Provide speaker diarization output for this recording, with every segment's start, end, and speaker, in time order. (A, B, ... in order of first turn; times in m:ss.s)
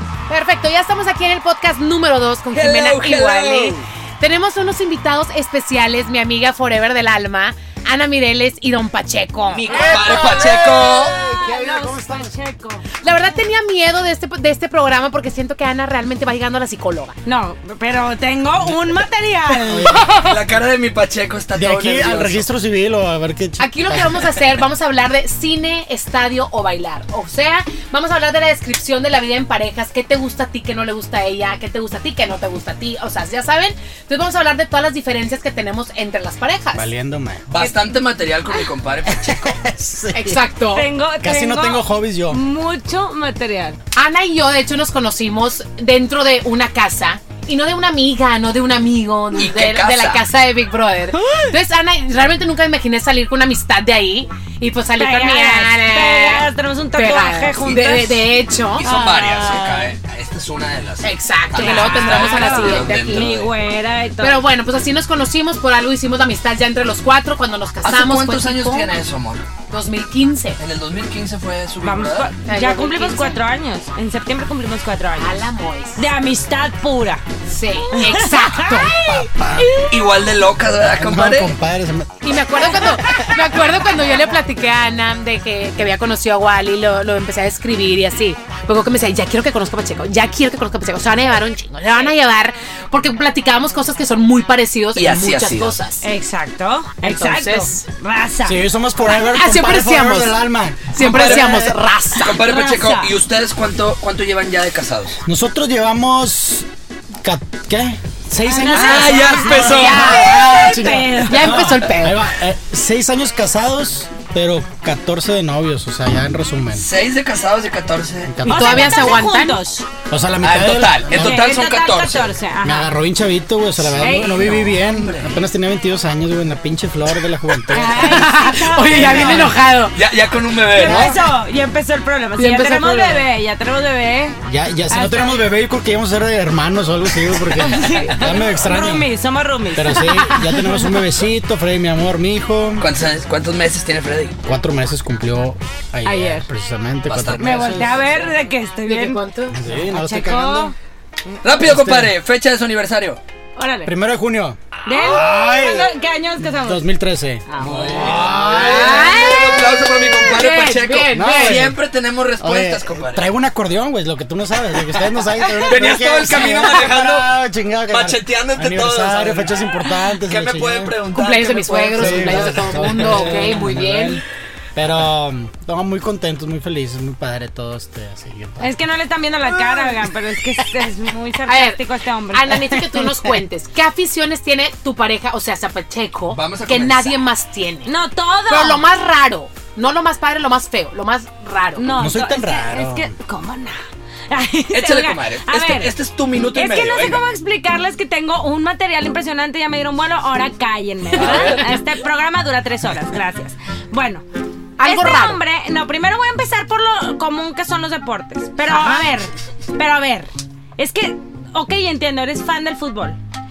0:00.3-0:10.5 A
0:02.5-0:03.8 B
0:09.5-0:11.1 B
0:09.7-0:12.3 C
0:10.0-0:13.0 D
0:13.0-0:17.2 A
0:17.2-0:20.1 D
0:19.7-0:20.1 C
0:19.9-0:20.4 A
0:20.2-0:22.5 B
0:21.5-0:24.3 C
0:23.6-0:36.9 A
0:36.7-0:37.5 C
0:37.5-0:39.6 B
0:39.1-0:40.5 C
0:40.1-0:40.9 A
0:40.7-0:43.8 D
0:41.2-0:42.4 C
0:43.9-0:58.9 A
0:49.3-0:50.2 B
0:51.1-0:51.6 D
0:55.0-0:58.3 D
0:58.7-1:03.5 B
0:58.8-0:59.9 D
1:01.0-1:03.3 A
1:01.5-1:04.4 D
1:04.2-1:08.9 A
1:07.8-1:09.4 B
1:09.7-1:10.6 A
1:10.6-1:12.3 B
1:11.8-1:17.2 D
1:12.4-1:13.4 A
1:15.2-1:16.0 A
1:17.5-1:19.9 A
1:17.9-1:18.9 D
1:19.0-1:19.7 C
1:19.9-1:21.5 B
1:20.9-1:23.6 C
1:22.2-1:36.0 A
1:34.9-1:35.8 B
1:36.0-1:38.6 D
1:37.0-1:37.8 A
1:38.4-1:41.8 C
1:39.1-1:40.4 A
1:40.9-1:42.4 A
1:41.0-1:45.2 B
1:42.3-1:43.1 D
1:45.2-1:46.7 C
1:47.2-1:56.9 C
1:48.4-1:51.5 D
1:48.7-1:50.3 B
1:49.1-1:52.2 A
1:51.6-1:52.0 B
1:56.7-1:58.4 B
1:58.2-1:59.2 C
1:58.4-1:59.6 A
1:58.4-1:59.9 D
2:00.1-2:01.5 C
2:00.4-2:02.3 B
2:01.1-2:02.9 D
2:02.6-2:08.4 C
2:03.8-2:05.4 B
2:04.0-2:04.7 D
2:07.7-2:09.6 D
2:07.9-2:10.0 A
2:08.9-2:09.6 C
2:09.9-2:11.2 B
2:10.7-2:15.4 D
2:10.7-2:11.2 C
2:12.4-2:13.3 A
2:14.4-2:19.1 C
2:17.6-2:21.0 D
2:19.7-2:22.9 C
2:22.8-2:24.4 B
2:24.4-2:28.1 C
2:26.0-2:26.4 D
2:27.1-2:28.1 B
2:27.4-2:30.7 D
2:28.8-2:29.6 A
2:29.5-2:30.7 C
2:31.4-2:33.2 B
2:31.4-2:32.1 C
2:33.6-2:33.9 D
2:33.8-2:35.9 C
2:34.8-2:36.9 D
2:36.4-2:40.3 C
2:37.5-2:38.2 D
2:37.6-2:43.2 B
2:38.4-2:41.7 A
2:41.1-2:41.8 C
2:42.4-2:50.9 C
2:45.6-2:49.6 B
2:50.3-2:53.4 B
2:51.1-2:54.2 A
2:51.9-2:54.2 C
2:54.8-2:58.7 C
2:58.6-3:02.8 D
3:01.5-3:01.8 A
3:02.3-3:07.9 A
3:06.3-3:07.2 B
3:07.8-3:08.8 D
3:08.5-3:11.9 A
3:11.8-3:15.9 D
3:11.9-3:13.1 C
3:14.7-3:17.2 B
3:16.5-3:24.2 D
3:21.2-3:21.6 B
3:21.2-3:21.8 A
3:24.8-3:25.4 A
3:24.8-3:33.2 D